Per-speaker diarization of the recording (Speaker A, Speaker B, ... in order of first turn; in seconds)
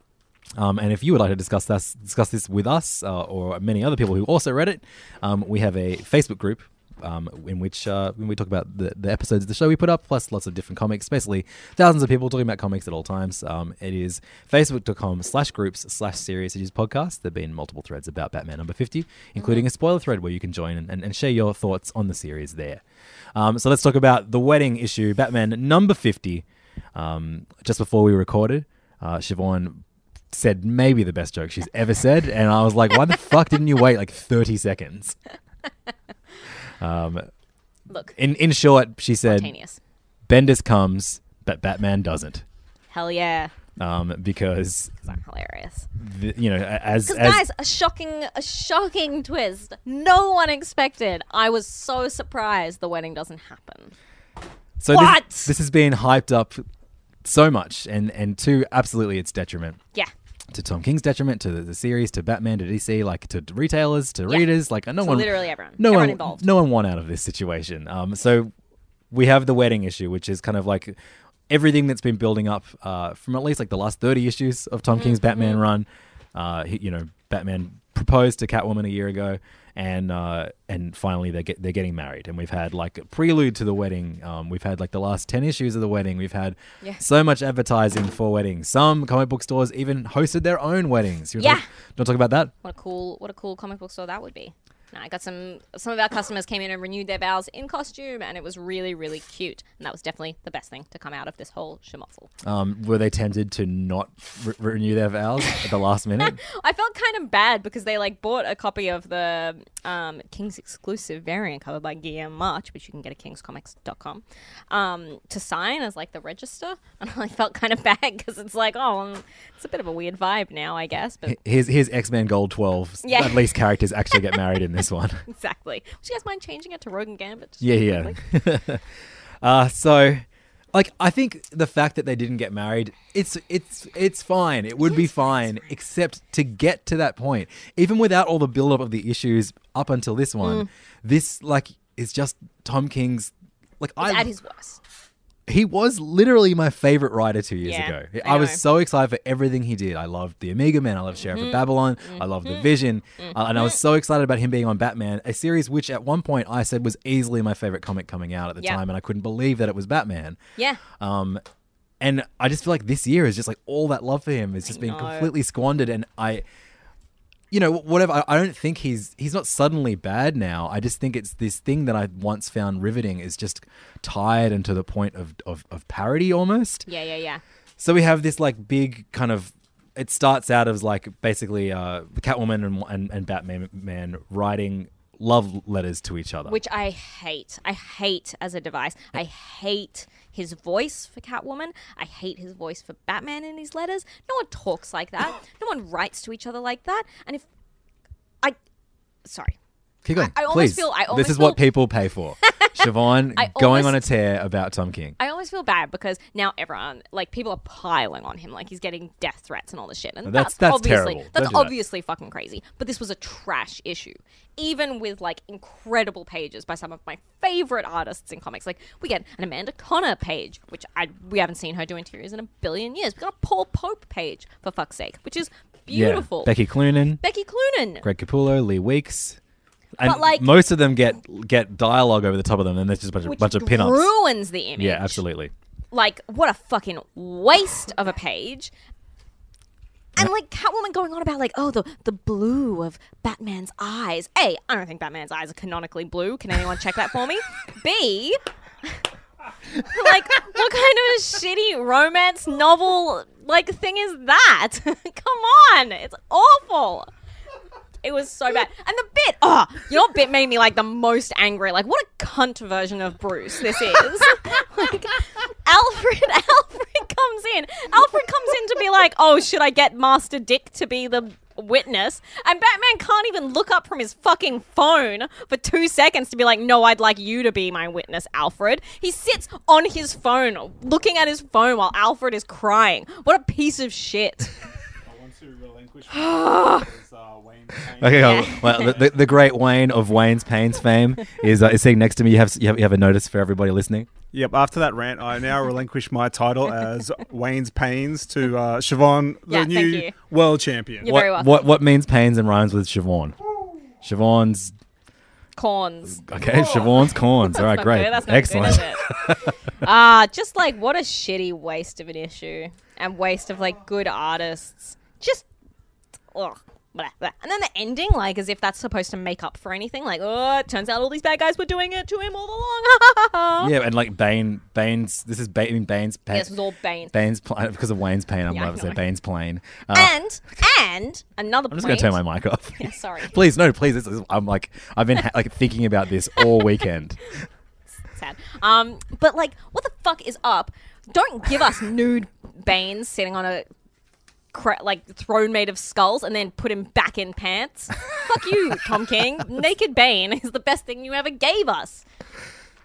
Speaker A: 0.6-22.8, 23.3-35.2, 36.8-37.3, 38.1-39.5, 40.3-42.5, 43.8-45.0, 46.0-47.4, 54.8-56.7, 57.2-59.8, 60.5-68.5, 69.1-71.0, 71.5-92.5, 102.4-106.4, 121.3-125.2, 127.6-128.8, 129.4-144.3, 145.5-160.4, 160.9-161.4, 162.0-166.4, 167.5-176.9, 177.8-186.6, 200.0-205.2, 210.2-211.8, 225.9-227.2, 228.0-229.4, 230.0-234.1, 234.8-235.5, 288.0-294.1, 301.0-303.4, 304.0-304.8, 306.1-309.5, 323.6-326.5, 327.1-330.2, 331.7-337.3
Speaker B: 19.4-19.7, 37.9-38.1, 39.2-39.8, 42.9-43.5, 45.1-45.9, 47.1-53.9, 54.9-55.5, 64.3-66.4, 75.0-75.6, 91.4-91.7, 92.6-102.3, 106.2-121.4, 123.0-123.6, 125.3-128.2, 140.4-140.7, 144.0-144.8, 147.6-148.6, 151.2-153.8, 160.6-160.8, 164.7-165.3, 176.9-177.4, 186.5-197.4, 199.2-199.6, 200.2-201.6, 203.4-204.0, 205.2-226.6, 227.2-228.1, 230.0-230.5, 233.2-235.2, 235.9-238.7, 240.2-249.0, 249.8-257.1, 258.0-284.6, 286.1-286.9, 288.1-288.9, 299.5-300.1, 301.0-301.7, 305.6-309.1, 309.8-315.5, 316.3-323.8, 326.3-327.1, 328.5-329.0, 329.9-332.2, 332.8-333.4, 338.1-343.7, 344.5-352.1
Speaker C: 285.0-289.2, 294.3-301.2